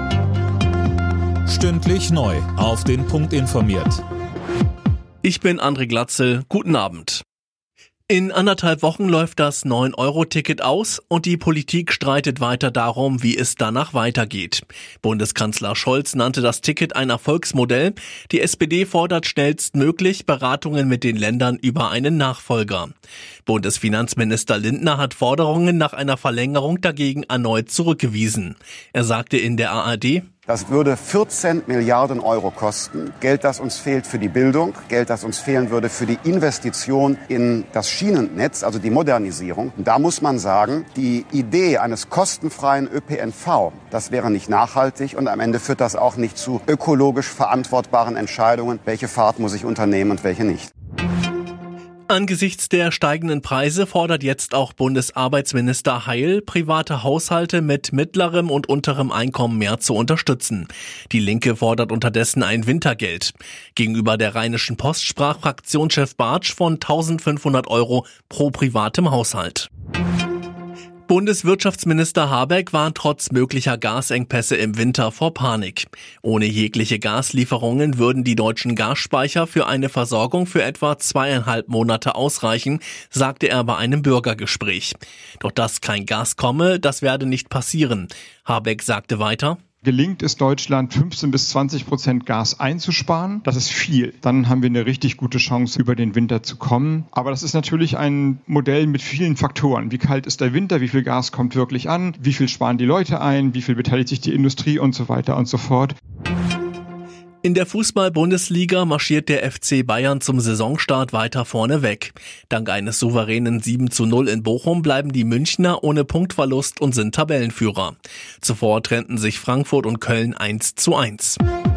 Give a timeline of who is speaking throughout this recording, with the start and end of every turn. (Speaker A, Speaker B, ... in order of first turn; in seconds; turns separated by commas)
Speaker A: 1.5-4.0, Speaker B: 5.2-7.2, Speaker B: 8.1-22.9, Speaker B: 23.5-30.3, Speaker C: 30.5-50.7, Speaker B: 52.1-69.7, Speaker B: 71.1-89.6, Speaker D: 89.8-106.0, Speaker B: 107.4-121.4